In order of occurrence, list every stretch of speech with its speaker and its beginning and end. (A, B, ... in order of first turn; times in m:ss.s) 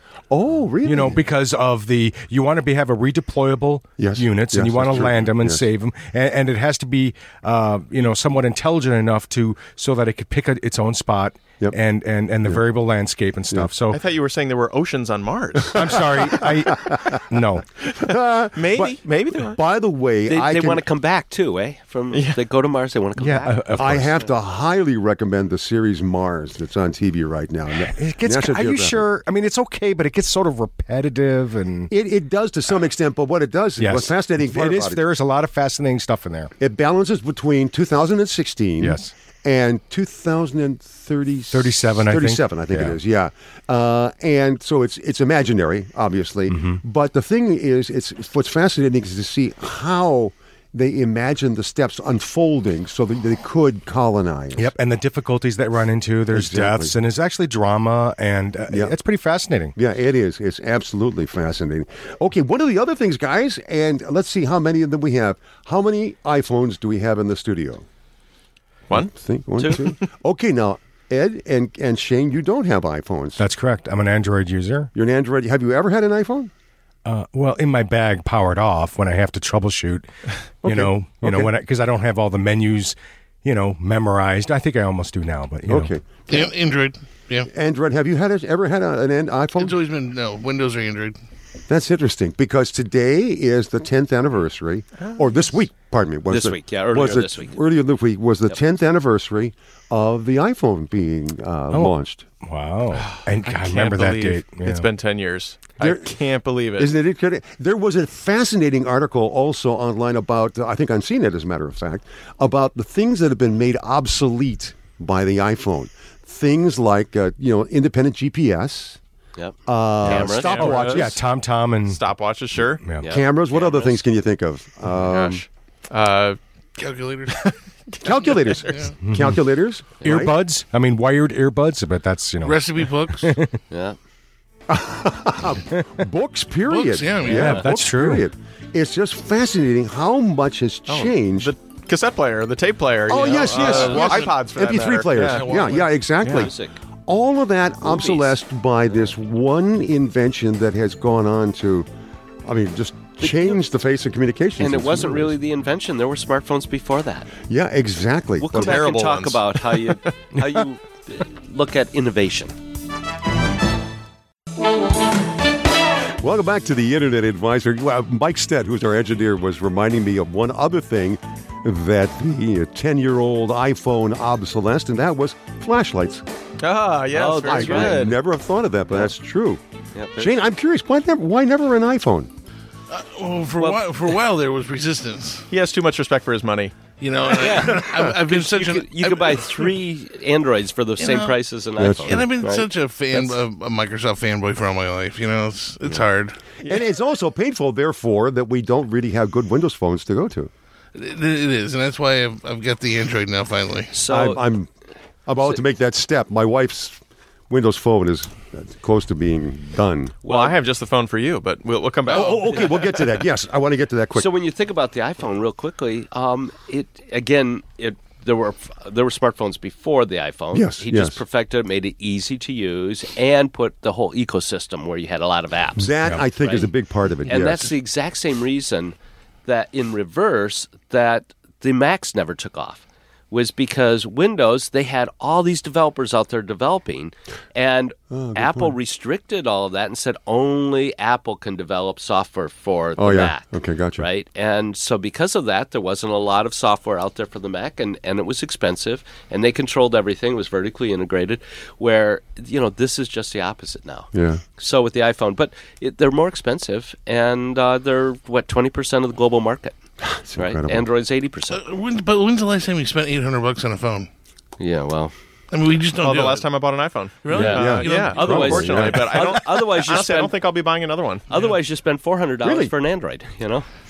0:00.3-0:01.2 A
0:00.8-0:14.0 B
0:04.0-0:05.6 A
0:13.9-0:16.1 C
0:15.7-0:17.7 B
0:15.8-0:17.2 A
0:18.0-0:20.8 A
0:18.5-0:19.6 C
0:20.3-0:24.0 D
0:23.2-0:24.1 B
0:23.8-0:29.0 A
0:27.8-0:31.9 B
0:31.9-0:35.0 A
0:33.8-0:36.5 B
0:36.6-0:54.7 A
0:38.8-0:39.1 B
0:41.5-0:43.0 B
0:46.5-0:46.8 B
0:54.6-0:59.8 B
0:56.3-0:56.9 A
0:58.7-0:59.0 A
0:59.8-1:07.8 A
1:08.9-1:13.4 A
1:13.4-1:14.9 B
1:14.9-1:16.5 A
1:17.1-1:20.1 B
1:20.6-1:25.9 B
1:20.6-1:21.5 A
1:25.7-1:26.4 A
1:26.3-1:27.5 E
1:27.5-1:29.8 A
1:29.6-1:31.2 E
1:31.7-1:42.3 A
1:36.3-1:37.6 D
1:41.7-1:44.9 B
1:43.0-1:46.9 C
1:45.8-1:46.1 A
1:46.8-1:59.0 A
1:59.4-2:00.7 D
1:59.7-2:01.2 A
2:00.1-2:02.0 B
2:00.2-2:01.2 C
2:01.9-2:02.8 C
2:03.0-2:04.0 D
2:03.1-2:05.4 A
2:05.0-2:06.4 C
2:06.8-2:07.4 E
2:07.3-2:08.9 C
2:08.0-2:10.4 A
2:09.0-2:09.4 B
2:10.0-2:13.6 B
2:12.4-2:13.4 E
2:13.7-2:14.0 D
2:14.7-2:21.5 A
2:16.7-2:17.6 E
2:17.3-2:17.6 D
2:17.4-2:18.3 B
2:20.9-2:25.5 C
2:23.1-2:26.5 A
2:23.2-2:24.0 D
2:23.7-2:24.2 E
2:25.3-2:25.9 E
2:25.6-2:26.8 D
2:26.2-2:26.5 C
2:27.1-2:31.9 A
2:27.8-2:28.4 D
2:32.4-2:35.4 A
2:34.6-2:37.3 D
2:37.5-2:38.8 A
2:38.4-2:42.5 D
2:38.5-2:40.0 C
2:46.2-2:56.2 A
2:56.6-2:58.2 C
2:57.1-2:58.1 D
2:57.4-2:59.6 A
3:00.0-3:00.3 D
3:00.2-3:02.3 A
3:02.9-3:05.5 E
3:03.6-3:03.8 D
3:05.5-3:06.8 C
3:07.0-3:09.7 E
3:07.3-3:13.4 D
3:11.0-3:11.4 E
3:11.8-3:12.3 A
3:12.1-3:16.4 E
3:16.6-3:20.5 A
3:20.9-3:23.9 E
3:23.9-3:24.4 D
3:24.1-3:24.7 A
3:25.3-3:27.0 A
3:27.5-3:30.2 A
3:30.2-3:32.8 C
3:30.2-3:30.6 D
3:32.1-3:34.3 A
3:32.5-3:32.7 D
3:34.2-3:46.7 D
3:40.5-3:41.2 A
3:45.8-3:47.7 A
3:47.3-3:49.0 D
3:49.5-4:03.5 D
3:58.1-3:58.7 A
4:03.0-4:04.0 A
4:04.0-4:19.8 D
4:14.1-4:14.4 A
4:20.0-4:20.9 A
4:20.3-4:21.6 D
4:21.5-4:24.1 E
4:24.6-4:25.1 D
4:25.5-4:26.4 E
4:26.0-4:31.3 C
4:27.2-4:29.0 E
4:27.3-4:30.3 D
4:27.3-4:29.2 A
4:31.3-4:33.6 D
4:32.4-4:32.7 A